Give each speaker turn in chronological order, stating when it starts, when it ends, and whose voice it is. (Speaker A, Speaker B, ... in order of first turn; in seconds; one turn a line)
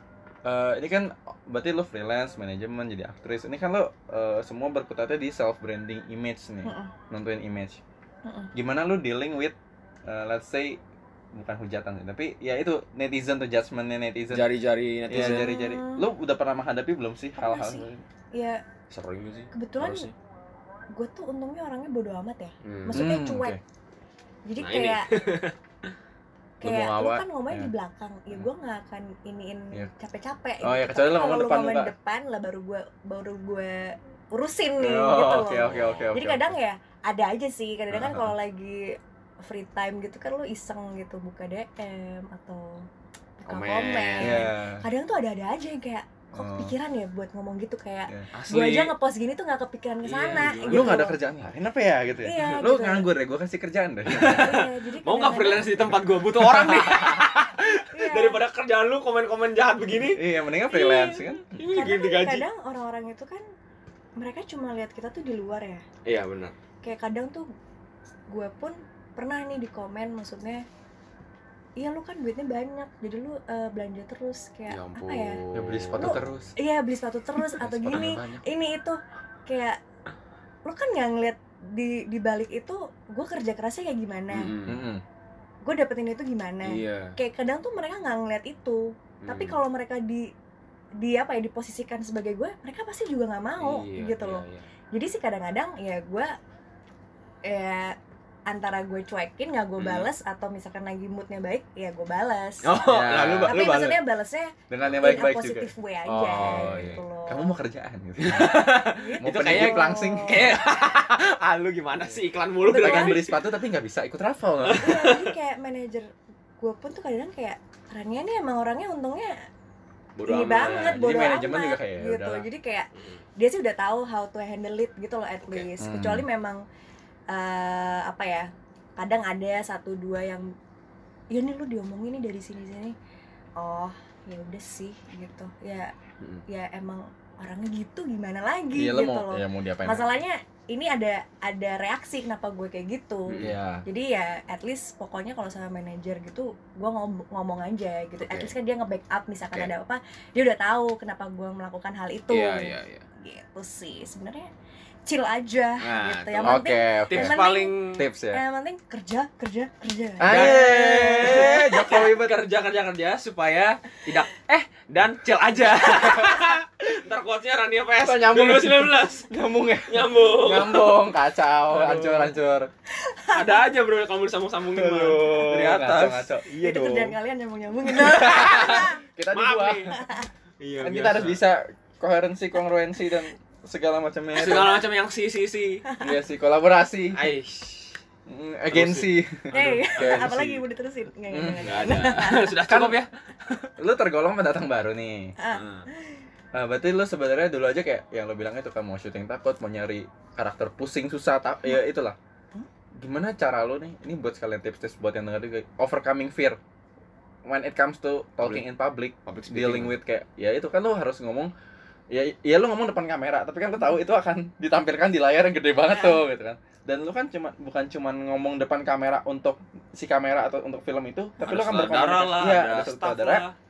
Speaker A: 0.4-7.8
Speaker B: 6.6-6.9
Speaker B: 8.2-8.5
Speaker A: 8.5-10.8
Speaker A: 11.3-14.5
Speaker C: 14.3-15.5
Speaker A: 15.1-18.0
Speaker B: 15.2-16.1
Speaker B: 17.4-18.6
Speaker C: 18.9-20.1
Speaker B: 19.5-20.1
Speaker B: 20.9-23.6
Speaker C: 22.6-23.1
Speaker A: 22.9-23.6
Speaker B: 24.5-25.1
Speaker C: 24.6-25.9
Speaker B: 26.6-42.9
Speaker A: 26.6-27.7
Speaker A: 30.6-31.9
Speaker A: 34.8-36.6
Speaker C: 35.6-36.1
Speaker A: 37.9-38.3
Speaker B: 43.4-51.1
Speaker C: 43.5-44.5
Speaker A: 44.2-44.9
Speaker A: 46.3-46.7
Speaker C: 48.3-48.9
Speaker C: 50.0-51.0
Speaker A: 50.7-54.6
Speaker B: 52.2-53.1
Speaker C: 54.0-60.2
Speaker B: 54.2-55.8
Speaker A: 56.3-57.2
Speaker B: 57.9-58.4
Speaker A: 59.9-61.6
Speaker B: 60.7-63.4
Speaker C: 61.5-62.5
Speaker B: 64.2-65.8
Speaker C: 66.0-66.5
Speaker B: 66.8-67.5
Speaker B: 68.3-70.6
Speaker B: 71.8-75.4
Speaker C: 74.7-76.2
Speaker A: 75.5-76.5
Speaker B: 75.9-79.8
Speaker A: 77.4-78.5
Speaker B: 80.7-84.5
Speaker C: 84.3-84.8
Speaker A: 84.7-85.0
Speaker B: 85.6-90.3
Speaker C: 86.7-87.1
Speaker C: 89.2-89.6
Speaker B: 91.0-96.3
Speaker C: 93.6-94.7
Speaker B: 97.5-98.0
Speaker B: 98.5-102.8
Speaker C: 99.8-100.1
Speaker C: 102.6-104.0
Speaker A: 102.7-103.9
Speaker B: 103.4-107.5
Speaker A: 104.7-110.6
Speaker C: 106.3-107.0
Speaker C: 108.2-113.4
Speaker B: 108.4-110.6
Speaker B: 112.6-113.3
Speaker A: 112.7-115.1
Speaker C: 114.6-115.3
Speaker B: 114.7-119.3
Speaker C: 120.2-121.0
Speaker B: 120.2-126.6
Speaker A: 120.6-122.5
Speaker C: 122.9-123.2
Speaker A: 125.8-126.2
Speaker B: 127.3-130.5
Speaker B: 131.3-132.9
Speaker B: 133.6-135.9
Speaker C: 136.2-136.4
Speaker B: 136.5-154.5
Speaker A: 138.7-140.1
Speaker C: 143.3-143.6
Speaker A: 143.4-143.8
Speaker C: 148.2-148.5
Speaker C: 152.3-153.0
Speaker B: 155.1-161.7
Speaker C: 155.8-158.1
Speaker A: 156.4-157.4
Speaker A: 157.9-158.4
Speaker A: 160.2-162.4
Speaker C: 160.2-169.3
Speaker A: 168.0-172.7
Speaker C: 169.9-171.0
Speaker C: 171.7-172.3
Speaker B: 173.0-173.6
Speaker C: 173.3-177.2
Speaker A: 174.7-176.5
Speaker B: 176.5-179.0
Speaker A: 178.0-180.0
Speaker C: 178.1-180.0
Speaker B: 179.9-180.3
Speaker C: 180.6-181.4
Speaker A: 180.8-184.8
Speaker C: 184.3-185.8
Speaker A: 186.0-187.3
Speaker C: 187.1-188.0
Speaker A: 188.3-190.6
Speaker C: 188.7-190.6
Speaker B: 189.5-192.5
Speaker A: 191.3-192.1
Speaker C: 191.6-193.7
Speaker A: 192.6-193.0
Speaker A: 193.8-195.3
Speaker B: 195.4-196.2
Speaker C: 195.5-195.9
Speaker A: 196.5-202.2
Speaker A: 203.0-206.6
Speaker A: 207.4-211.5
Speaker C: 209.2-209.9
Speaker A: 212.1-223.4
Speaker B: 215.9-216.2
Speaker C: 221.4-223.5